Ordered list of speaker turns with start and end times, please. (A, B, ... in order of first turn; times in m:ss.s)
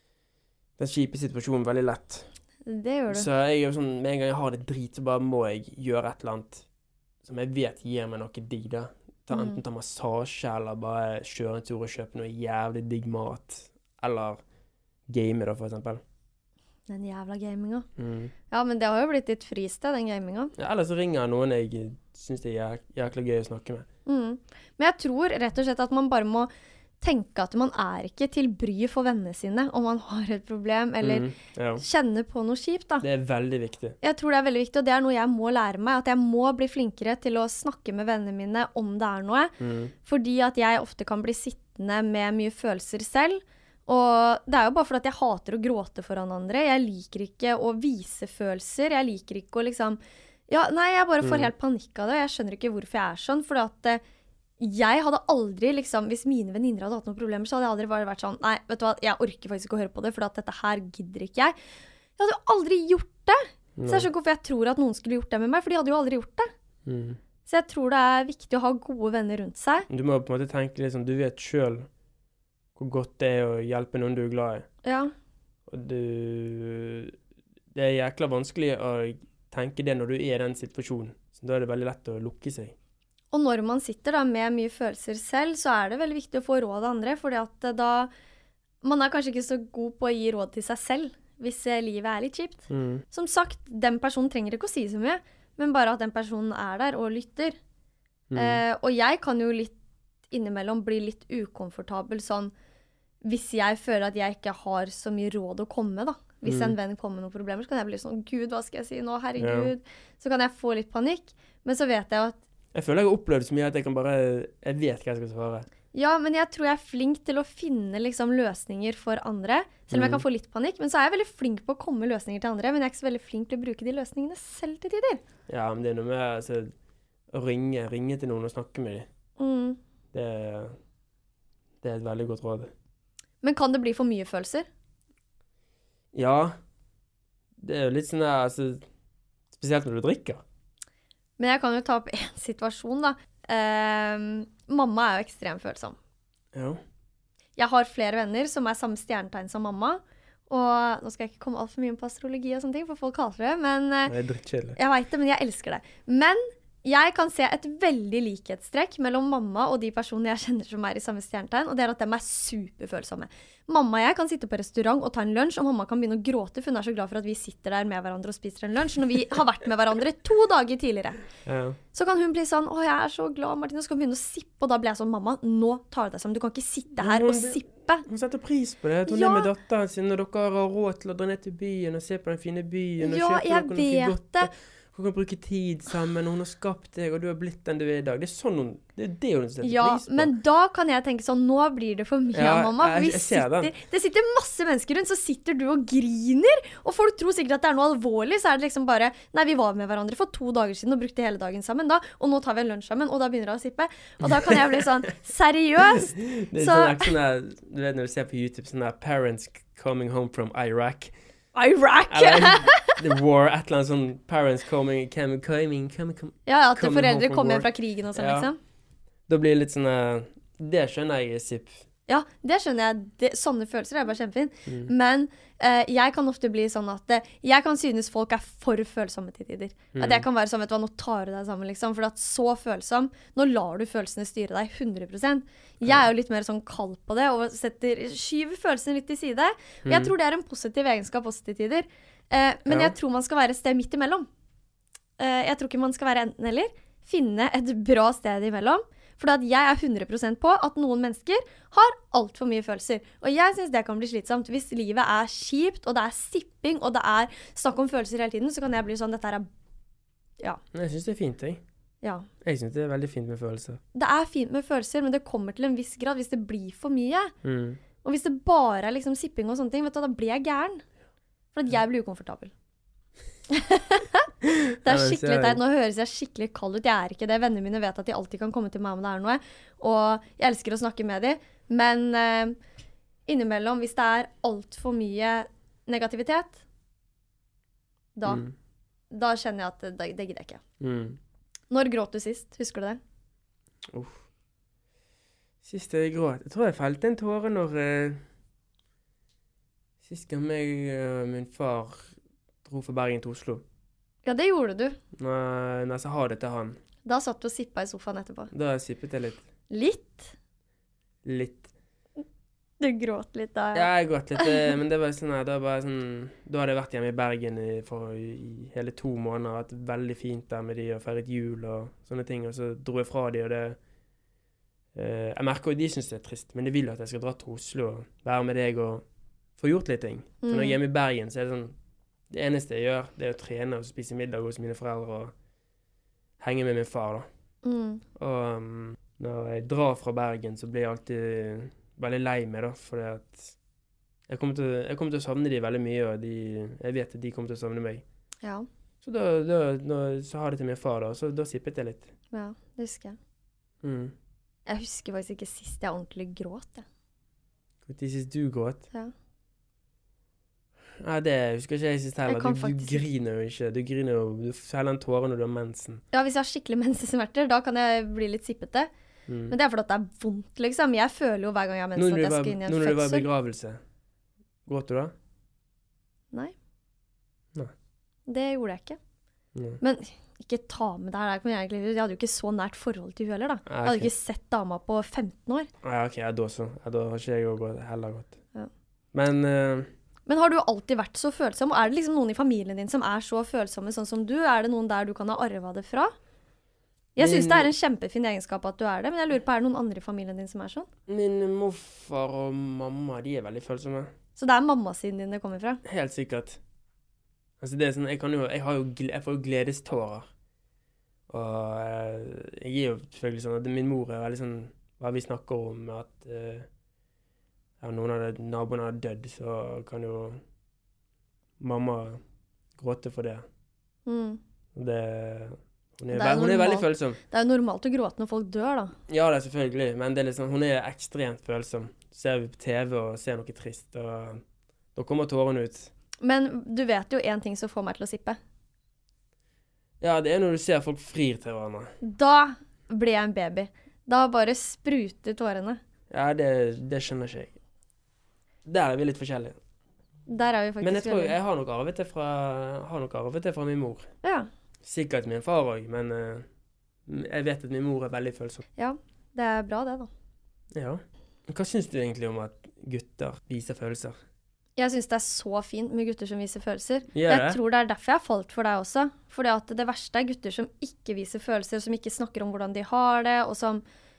0:00.8-0:02.3 A
0:02.7-0:03.3 B
0:03.1-0:06.6 A
0:07.2-0:14.4 A
0:09.3-0:09.6 B
0:15.1-0:16.0 A
0:16.9-0:17.9 B
0:18.0-0:18.3 A
0:18.5-0:20.5 B
0:20.6-0:23.9 A
0:24.1-0:26.5 B
0:27.0-0:33.0 B
0:31.0-0:31.8 A
0:33.0-0:34.0 A
0:34.0-0:39.5 B
0:39.6-0:39.9 A
0:40.1-0:54.0 B
0:51.2-0:51.5 A
0:54.6-1:01.6 B
1:02.2-1:06.5 B
1:03.8-1:04.1 A
1:06.9-1:07.2 A
1:07.5-1:09.9 B
1:09.9-1:11.9 A
1:12.8-1:14.7 A
1:14.8-1:15.1 B
1:15.7-1:17.2 A
1:17.7-1:22.8 A
1:23.3-1:28.1 B
1:28.8-1:37.6 B
1:32.7-1:33.0 A
1:38.3-1:38.6 A
1:38.4-1:39.7 B
1:40.3-1:42.5 B
1:43.2-1:52.4 B
1:46.5-1:46.8 A
1:49.4-1:49.7 A
1:52.7-1:55.7 A
1:55.9-2:05.2 B
1:59.9-2:00.2 A
2:05.5-2:06.7 A
2:07.3-2:09.1 A
2:09.4-2:09.8 B
2:10.1-2:10.8 A
2:11.8-2:12.7 A
2:13.4-2:14.7 B
2:16.1-2:16.6 A
2:17.6-2:18.8 A
2:19.5-2:20.4 A
2:21.4-2:26.0 B
2:26.5-2:26.8 A
2:27.6-2:34.2 B
2:34.1-2:34.8 A
2:34.8-2:51.2 B
2:51.4-2:51.8 A
2:51.9-2:58.1 B
2:57.0-3:10.3 A
2:59.1-2:59.5 B
3:03.0-3:04.5 B
3:09.6-3:27.1 B
3:12.3-3:13.7 A
3:24.2-3:24.9 A
3:25.9-3:31.1 A
3:31.6-3:33.0 B
3:32.1-3:38.5 A
3:36.5-3:38.6 B
3:39.3-3:41.8 A
3:42.1-4:04.3 B
3:44.7-3:44.9 A
3:50.0-3:50.3 A
3:59.8-4:00.1 A
4:02.7-4:03.0 A
4:05.2-4:19.5 B
4:20.7-4:21.6 A
4:22.0-4:22.3 B
4:22.4-4:23.8 A
4:23.9-4:27.3 B
4:27.4-4:27.8 A
4:28.0-4:30.8 B
4:31.5-4:32.5 B
4:33.5-4:34.3 B
4:34.4-4:35.6 A
4:34.8-4:42.6 B
4:43.3-4:46.6 B
4:48.2-4:48.4 B
4:48.3-4:48.5 A
4:49.1-4:50.6 B
4:50.8-4:51.2 A
4:51.7-4:53.0 B
4:53.9-4:54.3 A
4:55.6-4:58.2 A
5:00.0-5:02.1 A
5:02.6-5:03.6 A
5:04.2-5:05.0 B
5:05.2-5:06.8 A
5:07.0-5:08.5 B
5:08.5-5:09.4 A
5:09.7-5:10.3 B
5:11.2-5:11.7 A
5:12.8-5:14.6 B
5:13.7-5:23.8 A
5:24.9-5:29.0 A
5:29.6-5:31.8 A
5:30.4-5:30.8 B
5:32.3-5:35.3 A
5:36.4-5:37.3 A
5:37.6-5:38.0 B
5:38.2-5:43.6 A
5:44.3-5:48.0 A
5:49.0-5:52.1 A
5:52.3-5:53.2 B
5:53.8-5:54.1 A
5:54.7-5:56.8 B
5:57.9-5:58.9 A
6:01.0-6:06.0 A
6:02.3-6:03.0 B
6:06.1-6:08.9 B
6:09.3-6:09.6 A
6:09.5-6:13.3 B
6:12.0-6:13.8 A
6:14.7-6:15.1 A
6:18.3-6:19.0 B
6:19.6-6:19.8 A
6:19.8-6:25.7 B
6:23.7-6:24.1 A
6:25.8-6:28.4 A
6:29.1-6:29.9 A
6:30.3-6:36.1 B
6:37.2-6:40.9 B
6:37.2-6:37.7 A
6:41.1-6:44.1 A
6:44.4-6:45.8 B
6:45.8-6:46.6 A
6:47.6-6:50.3 A
6:51.3-6:56.7 A
6:57.8-7:00.4 A
7:01.6-7:02.2 A
7:02.8-7:03.4 A
7:04.1-7:04.4 B
7:04.7-7:07.2 A
7:06.1-7:09.0 B
7:09.1-7:14.4 A
7:15.0-7:15.9 A
7:16.2-7:18.4 B
7:20.0-7:21.9 A
7:22.0-7:25.8 B
7:26.1-7:27.6 A
7:28.6-7:29.6 A
7:30.3-7:31.4 B
7:30.8-7:34.1 A
7:34.2-7:34.5 B
7:34.8-7:36.5 A
7:37.1-7:38.6 A
7:38.8-7:40.1 B
7:40.7-7:44.2 A
7:44.8-7:53.8 B
7:47.1-7:47.6 A